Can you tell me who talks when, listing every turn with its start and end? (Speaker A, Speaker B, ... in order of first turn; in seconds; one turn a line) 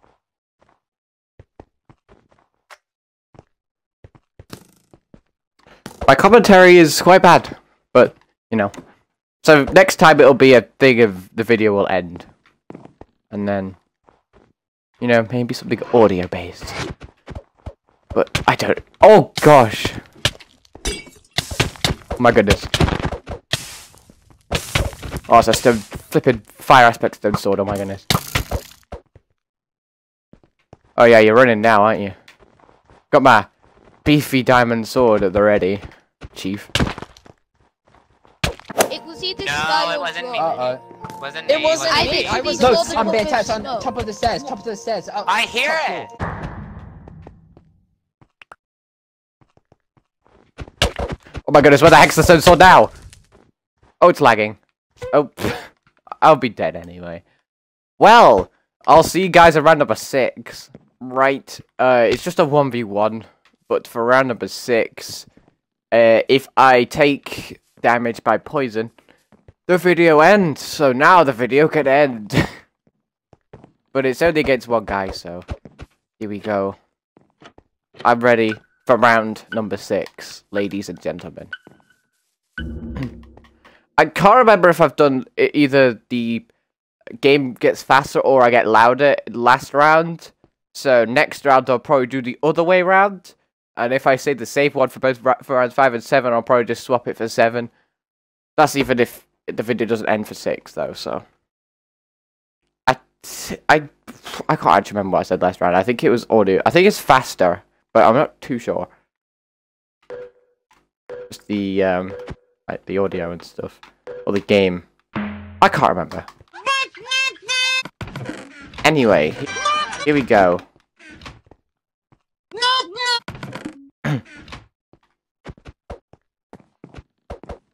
Speaker A: 6.1-8.7
Speaker A: 9.4-12.3
Speaker A: 13.3-13.8
Speaker A: 15.0-16.8
Speaker A: 18.1-20.0
Speaker A: 22.2-22.7
Speaker A: 25.3-28.1
Speaker A: 31.0-32.1
Speaker A: 33.1-33.5
Speaker A: 34.0-36.7
Speaker B: 38.9-40.5
Speaker C: 39.4-40.5
Speaker D: 40.4-40.8
Speaker C: 41.2-43.0
Speaker D: 41.5-46.1
Speaker B: 41.9-43.9
Speaker C: 45.2-46.1
Speaker A: 51.5-52.9
Speaker A: 54.0-54.6
Speaker A: 55.1-57.2
Speaker A: 58.0-65.3
Speaker A: 65.9-68.9
Speaker A: 69.7-72.6
Speaker A: 73.9-75.5
Speaker A: 76.2-76.8
Speaker A: 78.0-81.5
Speaker A: 84.0-86.5
Speaker A: 87.2-97.7
Speaker A: 98.6-101.2
Speaker A: 102.9-108.9
Speaker A: 111.3-112.2
Speaker A: 112.7-114.8
Speaker A: 115.6-116.3
Speaker A: 118.8-119.5
Speaker A: 120.0-120.7